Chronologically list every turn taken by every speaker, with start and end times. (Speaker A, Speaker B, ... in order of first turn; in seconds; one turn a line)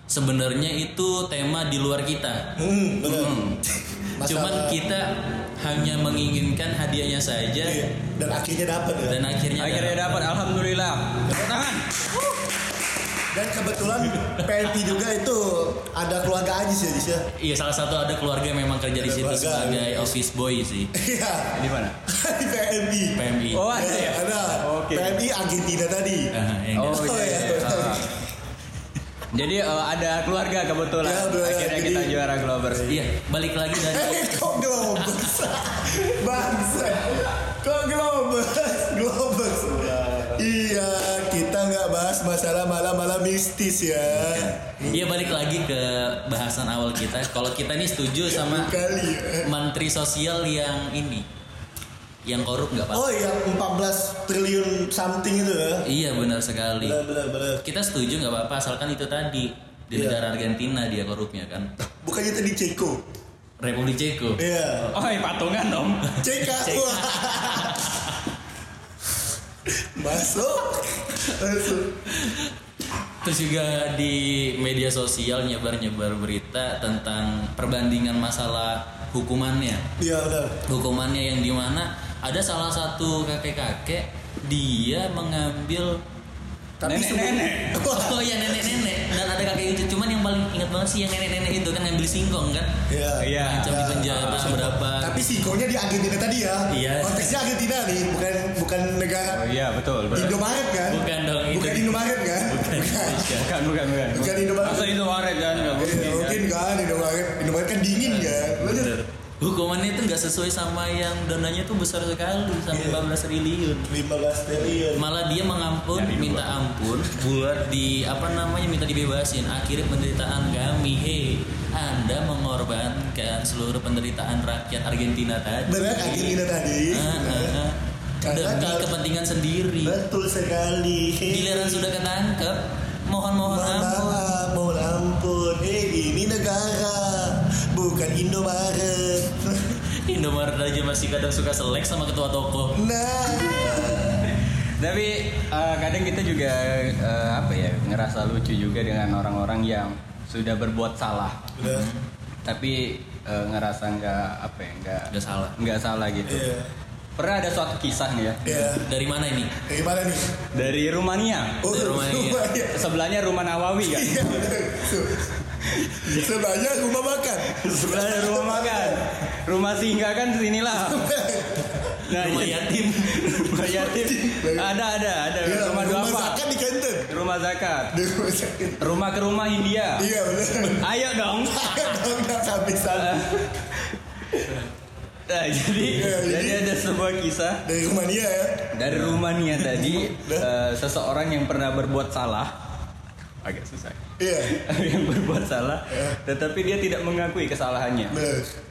Speaker A: 0.1-2.5
Speaker B: 2.6-4.8
Speaker C: 3.1-3.6
Speaker A: 4.2-7.8
Speaker B: 7.6-9.2
Speaker A: 9.1-10.2
Speaker C: 9.6-12.1
Speaker B: 13.3-17.3
Speaker A: 14.2-14.8
Speaker A: 17.4-20.9
Speaker B: 19.0-20.1
Speaker B: 20.9-26.3
Speaker C: 21.5-21.9
Speaker A: 23.2-23.8
Speaker C: 23.5-25.2
Speaker A: 26.3-28.0
Speaker C: 26.8-28.1
Speaker B: 26.9-28.1
Speaker C: 29.3-33.0
Speaker B: 31.0-32.2
Speaker A: 32.9-35.3
Speaker B: 33.8-45.3
Speaker A: 44.1-48.8
Speaker B: 48.3-49.5
Speaker A: 49.4-51.2
Speaker A: 52.2-53.1
Speaker B: 52.9-55.9
Speaker A: 55.9-57.0
Speaker B: 56.8-57.6
Speaker A: 57.6-61.7
Speaker B: 59.9-60.2
Speaker B: 61.8-63.0
Speaker A: 63.6-64.4
Speaker B: 64.4-64.9
Speaker C: 64.9-66.2
Speaker A: 66.2-68.2
Speaker B: 66.2-68.0
Speaker B: 69.7-72.1
Speaker A: 72.1-72.5
Speaker A: 73.2-79.8
Speaker B: 80.0-80.6
Speaker A: 80.7-86.0
Speaker B: 86.8-89.0
Speaker C: 86.8-87.8
Speaker A: 87.8-92.8
Speaker B: 92.9-99.5
Speaker C: 93.2-94.1
Speaker A: 93.4-95.2
Speaker A: 96.7-97.4
Speaker C: 99.3-100.4
Speaker B: 100.1-103.4
Speaker A: 100.9-103.5
Speaker C: 103.3-106.4
Speaker B: 104.1-105.0
Speaker A: 105.5-106.3
Speaker B: 105.8-109.0
Speaker A: 108.0-113.9
Speaker B: 112.7-113.0
Speaker B: 113.9-115.1
Speaker A: 114.9-130.0
Speaker C: 115.9-116.7
Speaker B: 125.7-127.6
Speaker B: 128.2-128.9
Speaker B: 129.8-131.9
Speaker A: 131.3-134.1
Speaker B: 133.4-139.8
Speaker A: 140.0-142.8
Speaker B: 142.7-144.3
Speaker C: 144.8-151.5
Speaker B: 151.6-151.9
Speaker A: 151.6-152.1
Speaker C: 152.4-156.5
Speaker A: 155.1-155.6
Speaker B: 156.3-156.7
Speaker C: 157.2-158.5
Speaker B: 158.4-158.9
Speaker A: 158.5-159.6
Speaker B: 159.7-160.4
Speaker C: 160.5-161.7
Speaker B: 161.6-162.8
Speaker A: 161.7-162.5
Speaker C: 162.7-164.4
Speaker B: 163.9-165.4
Speaker C: 165.6-166.3
Speaker B: 165.9-169.0
Speaker C: 167.5-171.1
Speaker B: 170.7-171.9
Speaker C: 172.1-176.4
Speaker A: 172.1-173.9
Speaker B: 173.9-174.8
Speaker B: 175.4-177.1
Speaker C: 177.1-177.9
Speaker B: 177.9-178.9
Speaker C: 178.8-180.1
Speaker B: 180.0-180.9
Speaker C: 180.7-181.9
Speaker B: 181.5-183.5
Speaker C: 182.9-183.9
Speaker C: 185.3-187.6
Speaker B: 185.8-186.7
Speaker B: 187.7-189.2
Speaker C: 188.7-192.5
Speaker B: 189.7-190.5
Speaker C: 193.4-198.2
Speaker B: 194.2-194.6
Speaker B: 195.9-196.2
Speaker B: 198.1-198.5